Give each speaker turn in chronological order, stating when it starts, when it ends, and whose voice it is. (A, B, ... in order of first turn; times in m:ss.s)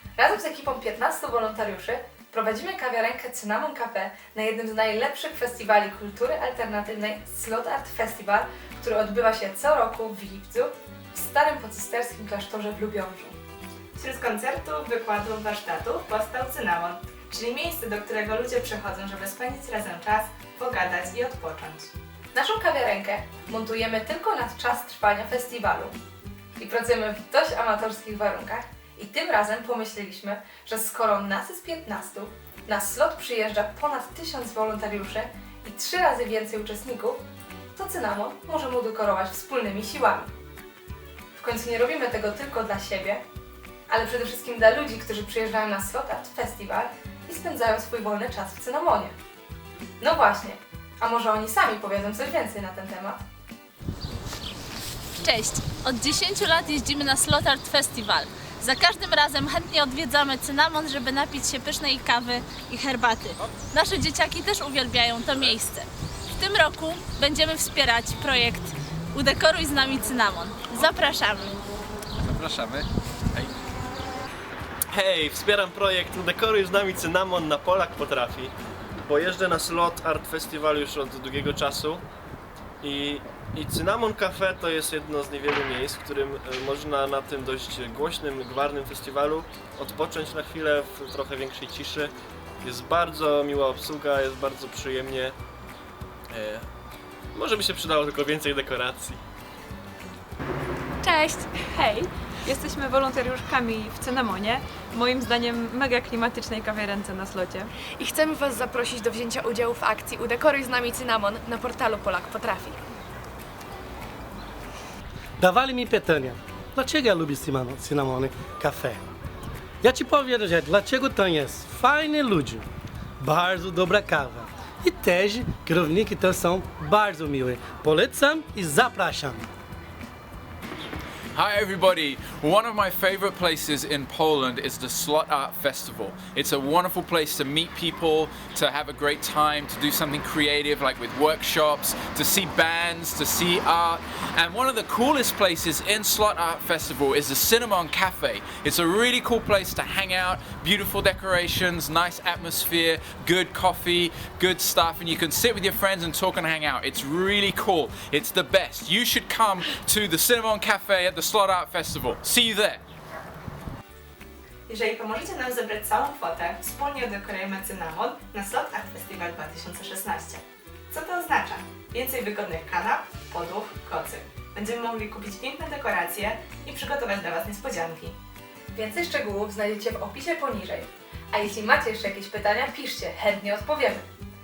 0:00.2-0:13.4 A
0:14.0-0:21.9 B
0:22.3-0:26.0 A
0:26.6-0:37.2 A
0:37.8-0:40.3 A
0:41.4-0:43.2 A
0:43.9-0:49.2 A
0:50.0-0:53.2 A
0:55.2-1:11.6 C
1:12.3-1:12.8 D
1:14.9-1:22.0 E
1:22.8-1:35.4 E
1:36.3-1:36.7 E
1:37.3-1:39.2 E
1:41.1-1:41.8 F
1:41.7-1:47.7 G
1:47.9-1:52.8 F
1:55.4-1:59.0 H
1:59.8-2:02.6 H
2:03.2-2:09.5 H
2:11.3-2:42.8 D
2:44.7-2:58.2 B
2:58.7-3:04.1 A